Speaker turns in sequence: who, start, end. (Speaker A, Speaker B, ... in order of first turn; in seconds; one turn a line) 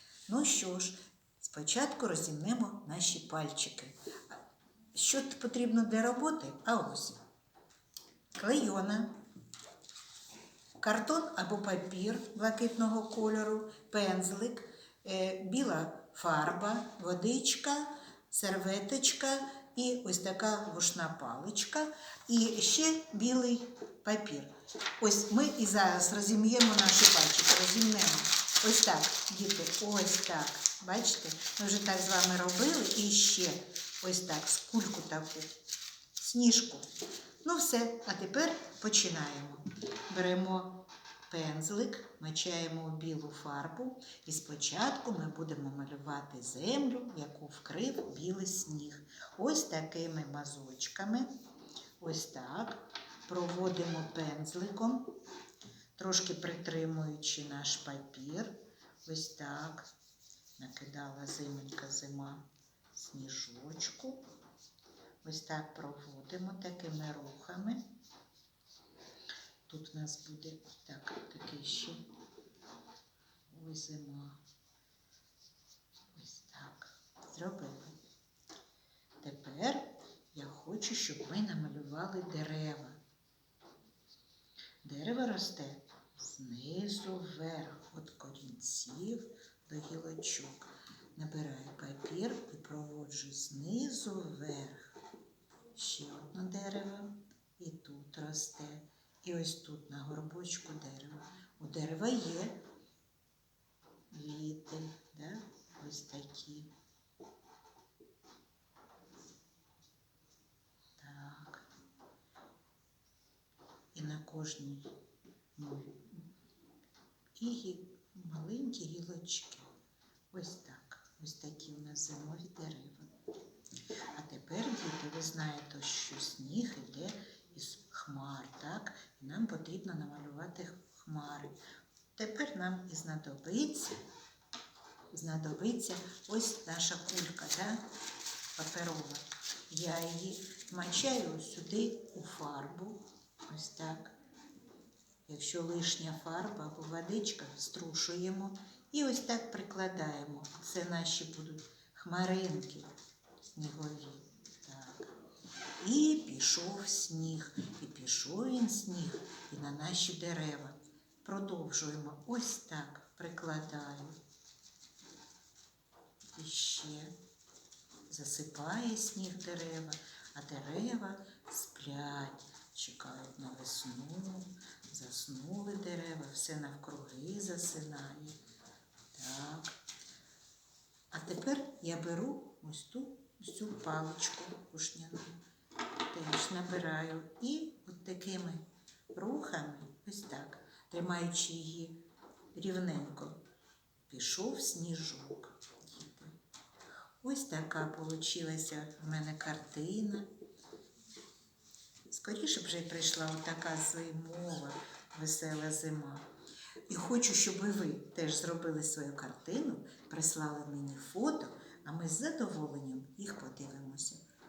Speaker A: 0.3-4.4
Speaker A: 4.9-7.2
Speaker A: 8.3-9.1
Speaker A: 10.8-35.6
Speaker A: 36.2-36.9
Speaker A: 37.4-51.3
Speaker A: 52.0-55.1
Speaker A: 56.0-59.9
Speaker A: 60.6-64.2
Speaker A: 65.2-67.8
Speaker A: 69.7-72.0
Speaker A: 73.5-74.4
Speaker A: 76.1-78.0
Speaker A: 79.2-83.0
Speaker A: 84.8-94.9
Speaker A: 95.7-102.6
Speaker A: 104.1-106.7
Speaker A: 111.0-111.6
Speaker A: 113.9-114.9
Speaker A: 115.5-116.2
Speaker A: 117.3-119.7
Speaker A: 120.3-123.1
Speaker A: 124.1-131.6
Speaker A: 132.2-133.9
Speaker A: 135.1-137.8
Speaker A: 138.6-144.1
Speaker A: 145.3-152.9
Speaker A: 153.4-155.1
Speaker A: 155.8-164.2
Speaker A: 166.3-167.1
Speaker A: 168.1-178.4
Speaker A: 179.1-179.8
Speaker A: 181.1-185.4
Speaker A: 186.1-192.0
Speaker A: 192.5-193.3
Speaker A: 194.1-196.3
Speaker A: 197.2-200.3
Speaker A: 202.1-206.2
Speaker A: 206.9-214.2